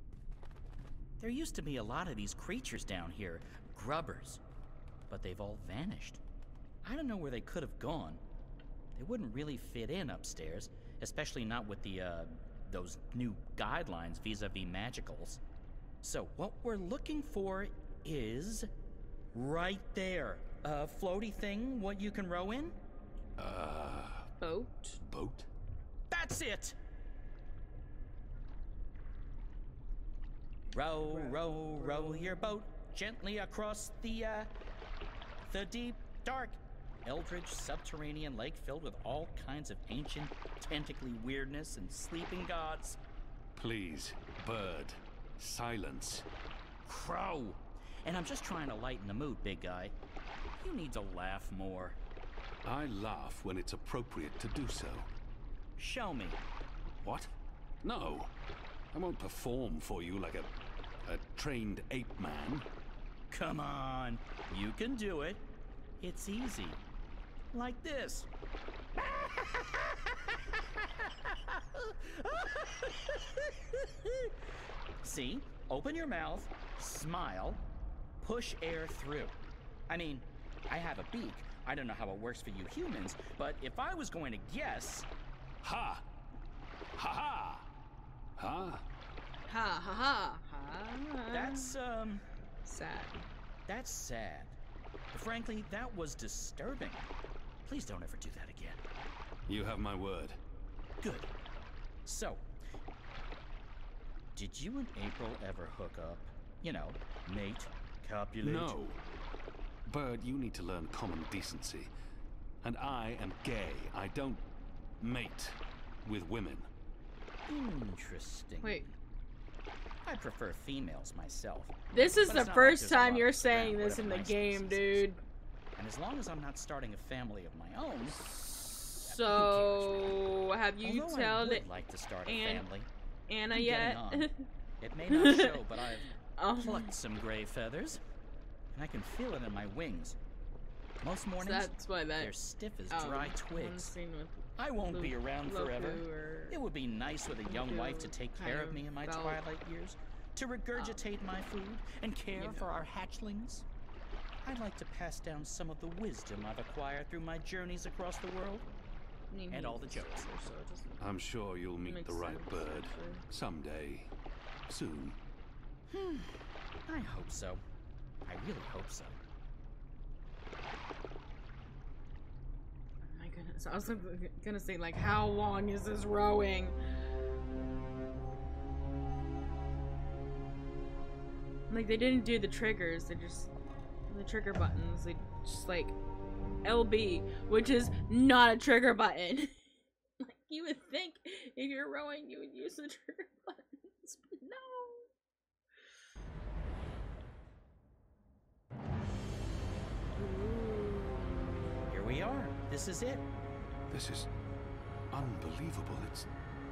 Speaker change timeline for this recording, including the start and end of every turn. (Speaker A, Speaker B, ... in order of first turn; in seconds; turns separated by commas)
Speaker A: 1.2-4.4, Speaker A: 5.1-6.2, Speaker A: 6.8-8.2, Speaker A: 9.0-15.4, Speaker A: 16.0-18.7, Speaker A: 19.3-22.8, Speaker B: 23.4-24.3, Speaker C: 24.4-25.0, Speaker B: 25.0-25.5, Speaker A: 26.1-26.8, Speaker A: 30.7-34.5, Speaker C: 31.1-32.4, Speaker A: 35.4-43.0, Speaker B: 43.6-46.3, Speaker A: 46.9-50.0, Speaker A: 50.5-52.0, Speaker B: 52.6-55.1, Speaker A: 55.8-56.4, Speaker B: 57.0-57.3, Speaker B: 57.8-58.3, Speaker B: 58.9-60.5, Speaker B: 61.1-62.7, Speaker A: 63.3-65.4, Speaker A: 66.0-66.8, Speaker A: 67.5-68.3, Speaker A: 69.1-70.3, Speaker A: 71.1-74.3, Speaker A: 75.0-77.6, Speaker A: 78.2-79.3, Speaker A: 79.9-85.1, Speaker B: 85.6-86.1, Speaker B: 87.0-87.7, Speaker B: 88.4-88.8, Speaker C: 89.5-91.7, Speaker A: 91.3-92.2, Speaker C: 92.6-93.2, Speaker A: 93.7-94.6, Speaker A: 95.1-97.1, Speaker A: 97.7-98.8, Speaker B: 99.5-100.4, Speaker A: 101.0-101.3, Speaker A: 102.0-102.4, Speaker A: 104.3-108.8, Speaker B: 108.4-109.0, Speaker B: 109.9-111.9, Speaker B: 112.6-114.5, Speaker B: 115.0-116.7, Speaker A: 117.5-119.0, Speaker A: 120.0-125.1, Speaker C: 121.9-125.2, Speaker A: 125.8-132.9, Speaker C: 129.0-131.7, Speaker C: 132.3-132.7, Speaker C: 133.3-134.4, Speaker A: 133.5-134.3, Speaker A: 134.8-138.0, Speaker C: 135.1-136.9, Speaker A: 138.7-140.2, Speaker A: 141.0-143.9, Speaker C: 141.4-142.4, Speaker C: 142.9-146.6, Speaker A: 144.6-153.7, Speaker C: 147.4-149.4, Speaker C: 152.3-152.7, Speaker A: 154.4-158.7, Speaker C: 159.3-161.0, Speaker A: 159.5-160.4, Speaker B: 161.0-164.1, Speaker C: 161.8-163.2, Speaker B: 164.7-165.2, Speaker A: 165.9-167.6, Speaker A: 168.3-169.2, Speaker C: 173.1-176.8, Speaker C: 181.7-183.5, Speaker C: 184.1-186.0, Speaker C: 186.6-189.5, Speaker C: 190.2-195.1, Speaker C: 200.2-201.4, Speaker A: 201.9-203.2, Speaker B: 203.9-204.3, Speaker B: 205.1-206.3